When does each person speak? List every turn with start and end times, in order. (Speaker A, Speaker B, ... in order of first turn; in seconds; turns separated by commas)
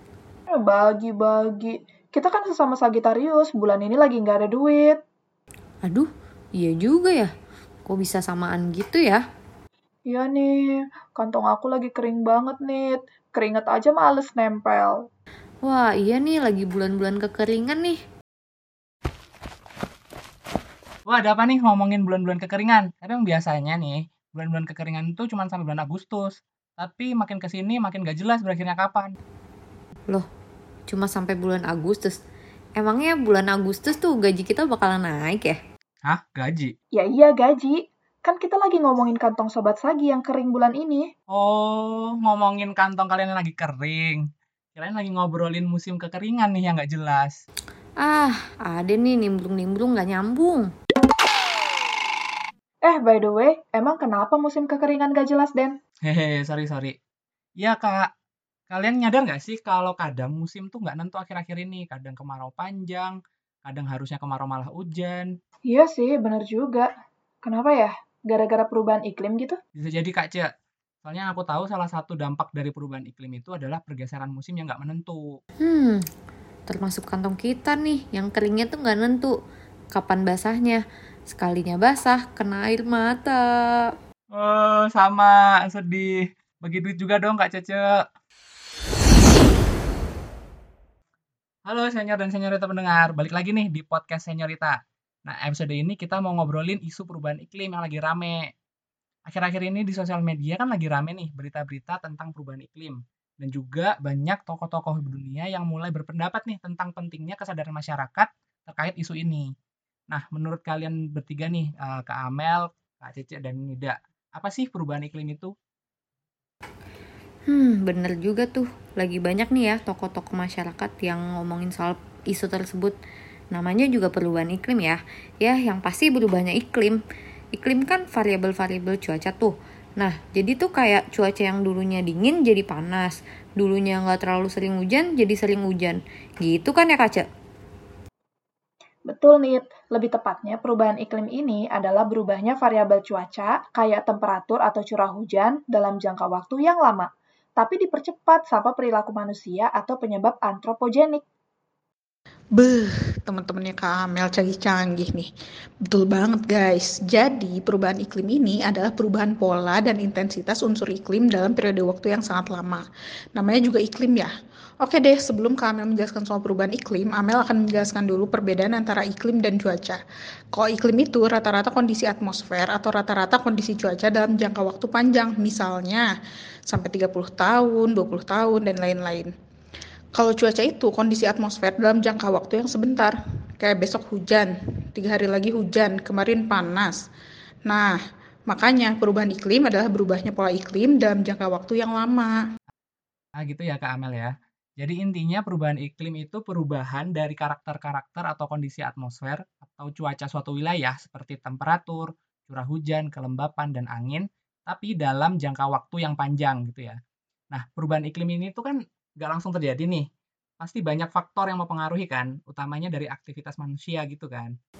Speaker A: 0.5-5.0, Speaker B: 5.8-7.3, Speaker B: 7.8-9.2, Speaker A: 10.1-10.6, Speaker A: 11.2-15.0, Speaker B: 15.6-18.0, Speaker C: 21.1-29.1, Speaker B: 30.9-32.2, Speaker B: 32.8-35.6, Speaker C: 36.0-36.7, Speaker A: 36.9-41.1, Speaker C: 41.3-44.2, Speaker C: 44.8-47.4, Speaker B: 48.0-50.7, Speaker A: 52.8-55.7, Speaker C: 56.0-57.0, Speaker C: 57.6-58.1, Speaker C: 58.7-65.3, Speaker A: 65.7-66.9, Speaker A: 67.4-69.6, Speaker C: 69.7-70.5, Speaker C: 71.0-75.4, Speaker B: 75.6-76.0, Speaker B: 76.7-79.3, Speaker B: 79.9-83.9, Speaker C: 84.3-88.0, Speaker C: 91.7-98.5, Speaker C: 99.3-109.5, Speaker C: 110.1-115.5, Speaker B: 117.5-123.0, Speaker B: 123.5-127.0, Speaker B: 127.5-137.2, Speaker A: 139.1-151.2, Speaker D: 152.6-155.3, Speaker D: 155.9-162.8, Speaker D: 163.3-170.0, Speaker D: 170.5-176.1, Speaker D: 176.7-179.3, Speaker D: 180.1-187.0, Speaker D: 187.7-187.9, Speaker D: 188.5-192.3, Speaker C: 193.4-207.0, Speaker C: 207.5-210.1, Speaker C: 210.6-214.5